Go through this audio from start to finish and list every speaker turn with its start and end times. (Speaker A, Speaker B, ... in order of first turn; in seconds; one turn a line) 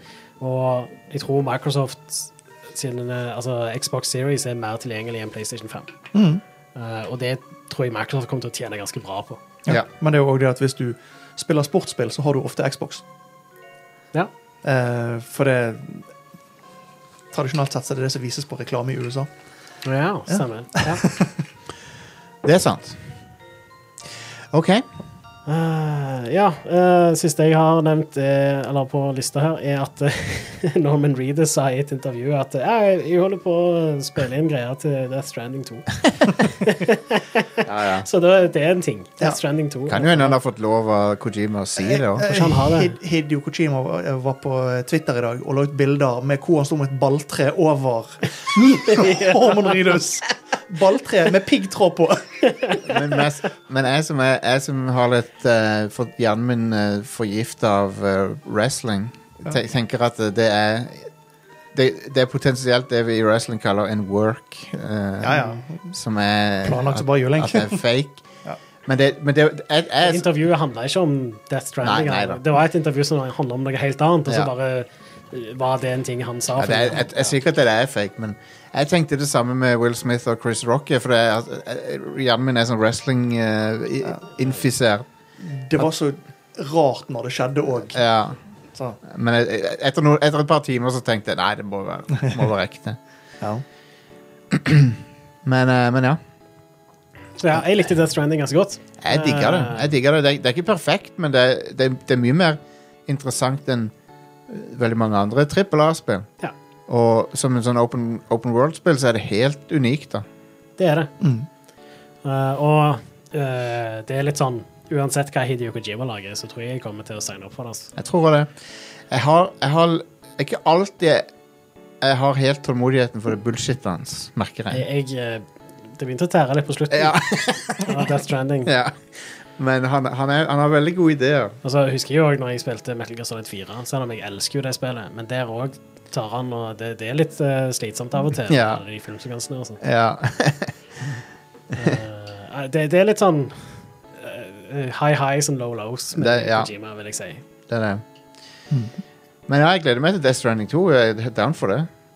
Speaker A: 0.4-5.9
Speaker B: 6.1-6.4
Speaker A: 6.8-9.4
Speaker B: 9.7-13.0
Speaker B: 14.6-16.1
Speaker B: 17.3-19.3
Speaker A: 19.9-21.1
Speaker B: 20.3-21.3
Speaker C: 22.4-23.0
Speaker C: 24.5-24.9
Speaker A: 25.5-40.4
Speaker C: 37.6-38.1
Speaker C: 39.9-42.3
Speaker B: 41.8-52.5
Speaker A: 42.2-43.0
Speaker A: 48.9-49.8
Speaker A: 52.5-52.8
Speaker C: 52.9-61.1
Speaker C: 61.7-68.2
Speaker B: 65.2-66.0
Speaker B: 66.6-67.8
Speaker C: 68.9-70.3
Speaker A: 70.0-77.4
Speaker C: 71.8-72.4
Speaker C: 76.6-85.1
Speaker B: 85.4-88.0
Speaker C: 87.9-88.4
Speaker C: 89.0-93.0
Speaker C: 94.5-96.2
Speaker A: 97.4-99.9
Speaker C: 99.0-103.9
Speaker C: 104.5-106.3
Speaker C: 106.9-110.2
Speaker A: 110.8-111.1
Speaker B: 111.2-111.5
Speaker A: 112.2-117.9
Speaker C: 118.0-118.5
Speaker C: 119.1-121.3
Speaker C: 122.0-124.8
Speaker A: 124.7-128.7
Speaker C: 126.9-128.1
Speaker C: 128.7-131.6
Speaker A: 131.6-139.8
Speaker C: 138.5-138.8
Speaker C: 139.8-140.8
Speaker A: 141.8-147.4
Speaker C: 146.2-146.7
Speaker C: 147.7-148.0
Speaker C: 149.5-151.9